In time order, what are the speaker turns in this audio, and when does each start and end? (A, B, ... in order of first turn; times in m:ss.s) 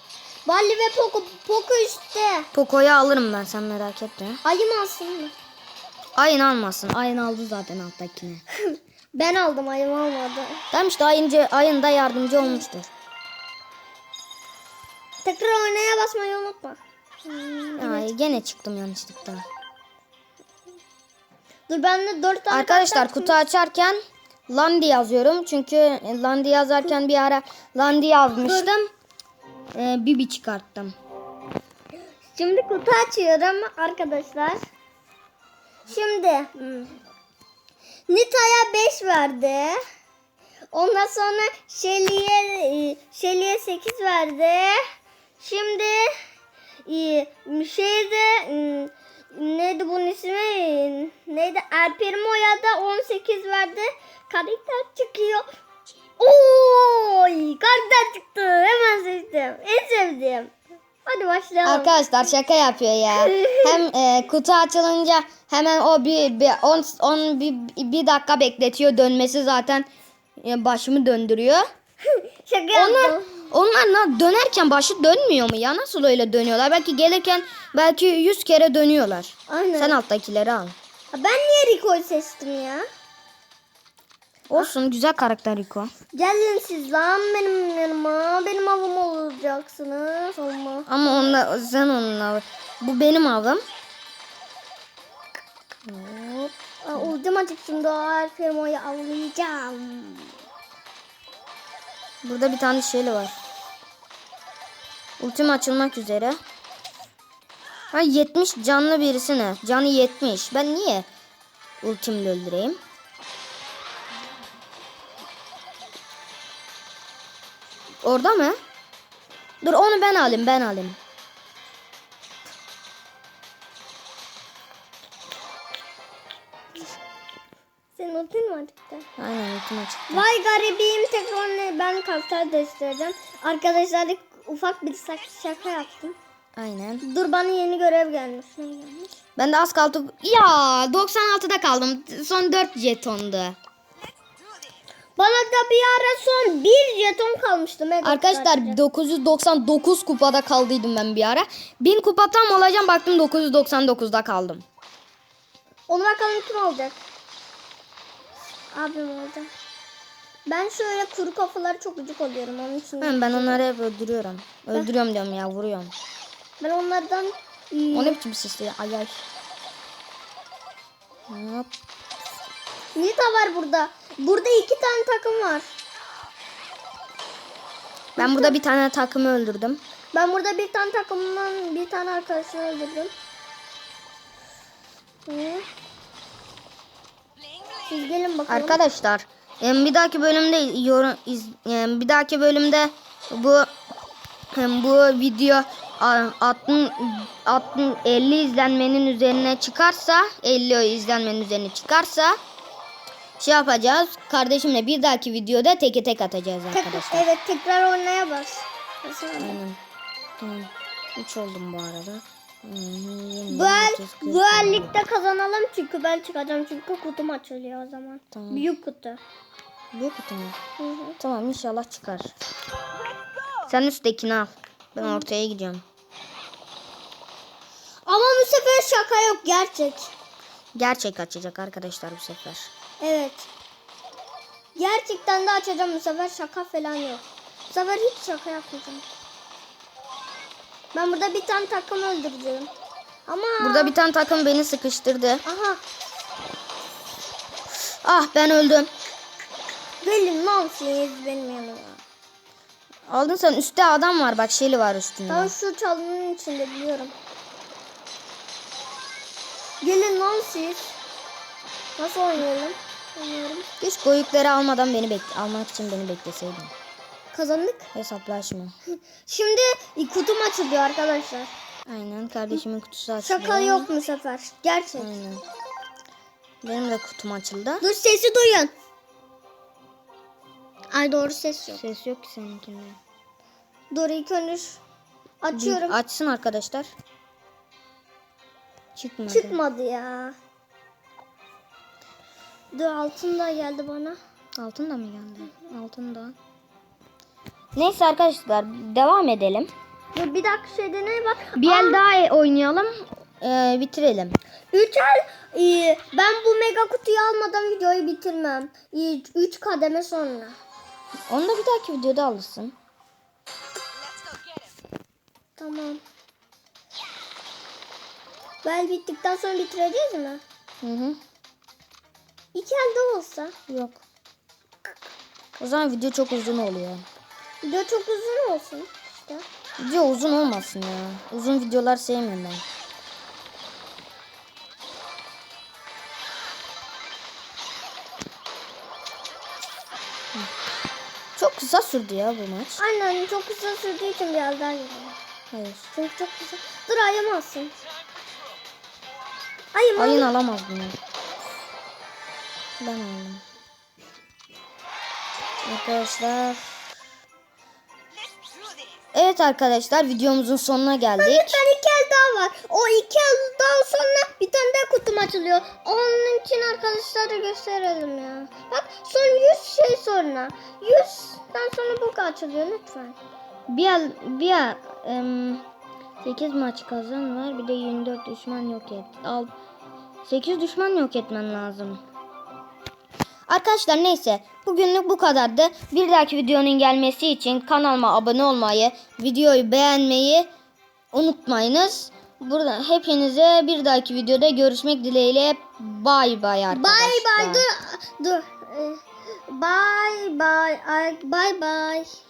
0:00.5-0:02.5 A
0:02.5-0:04.4 B
0:04.4-0:05.3 A
0:06.2-0:08.4 B
0:08.7-0:10.6 A
0:10.7-0:12.9 B
0:15.2-0:18.1 A
0:17.8-0:19.5 B
0:21.7-0:23.4 A
0:22.5-0:28.9 B
0:28.4-0:28.7 A
0:29.8-0:31.0 B
0:32.4-0:34.6 A
0:35.9-0:37.0 A
0:38.1-0:39.8 A
0:40.7-0:44.8 A
0:45.4-0:46.1 A
0:46.9-0:55.5 A
0:56.2-1:00.5 A
1:01.1-1:02.0 A
1:01.6-1:11.7 B
1:03.2-1:03.8 A
1:12.2-1:13.3 A
1:12.7-1:20.8 B
1:19.5-1:20.0 A
1:21.1-1:22.9 A
1:24.5-1:25.9 B
1:26.1-1:31.4 A
1:30.9-1:33.6 B
1:35.9-1:37.1 B
1:36.8-1:40.3 A
1:42.2-1:43.4 B
1:45.2-1:46.4 B
1:47.9-1:51.1 B
1:51.8-1:52.8 B
1:58.0-1:58.6 B
1:59.6-2:01.0 B
2:08.0-2:09.1 A
2:09.2-2:10.2 B
2:10.1-2:16.2 A
2:16.6-2:17.0 B
2:17.0-2:19.2 A
2:19.4-2:23.6 B
2:25.2-2:28.8 A
2:28.0-2:34.6 B
2:35.9-2:37.0 A
2:38.7-2:39.5 A
2:40.5-2:43.6 A
2:43.0-2:45.9 B
2:46.6-2:48.2 A
2:47.9-2:49.2 B
2:51.3-2:51.7 B
2:53.0-2:55.7 A
2:58.2-2:59.8 B
2:58.2-2:58.6 A
3:00.1-3:03.1 A
3:05.3-3:05.6 A
3:07.9-3:08.8 A
3:08.5-3:13.7 B
3:14.5-3:22.4 B
3:23.4-3:27.3 B
3:26.7-3:29.6 A
3:29.4-3:29.8 B
3:30.4-3:34.9 B
3:33.5-3:39.2 A
3:38.3-3:38.6 B
3:39.9-3:40.6 B
3:40.8-3:41.2 A
3:41.2-3:42.3 B
3:43.7-3:45.8 B
3:45.0-3:45.3 A
3:48.1-3:50.1 A
3:50.8-3:52.7 B
3:53.0-3:53.5 A
3:54.8-3:59.0 A
4:00.9-4:02.7 A
4:03.3-4:04.0 A
4:03.6-4:05.4 B
4:05.4-4:05.8 A
4:08.0-4:08.9 B
4:10.0-4:12.0 A
4:13.1-4:15.5 B
4:15.3-4:17.1 A
4:19.8-4:21.0 A
4:22.0-4:23.7 A
4:23.8-4:26.7 B
4:27.3-4:27.9 A
4:28.0-4:28.7 B
4:29.3-4:31.5 A
4:31.9-4:33.9 B
4:33.2-4:35.1 A
4:35.0-4:35.4 B
4:36.6-4:37.8 B
4:37.8-4:38.7 A
4:40.9-4:41.8 A
4:41.7-4:43.0 B
4:43.9-4:44.8 A
4:45.4-4:46.0 A
4:45.5-4:46.9 B
4:49.0-4:49.6 B
4:49.3-4:50.4 A
4:52.7-4:54.2 A
4:54.6-4:56.4 B
4:57.8-4:59.7 B
5:00.1-5:02.0 A
5:01.6-5:04.4 B
5:04.7-5:10.6 A
5:11.3-5:12.8 B
5:15.6-5:16.0 A
5:18.6-5:20.4 A
5:20.8-5:21.2 B
5:22.5-5:23.5 A
5:23.7-5:24.0 B
5:25.6-5:27.0 B
5:27.6-5:29.4 A
5:29.8-5:32.6 B
5:41.4-5:42.8 B
5:42.8-5:45.2 A
5:45.5-5:45.9 B
5:45.9-5:47.8 A
5:49.7-5:50.3 A
5:50.0-5:51.0 B
5:52.8-5:53.4 B
5:55.6-5:56.8 B
5:59.1-6:01.6 B
6:01.2-6:13.2 A
6:13.7-6:15.6 B
6:16.2-6:19.5 B
6:20.2-6:22.0 B
6:23.5-6:30.5 B
6:31.1-6:37.6 B
6:36.7-6:42.1 A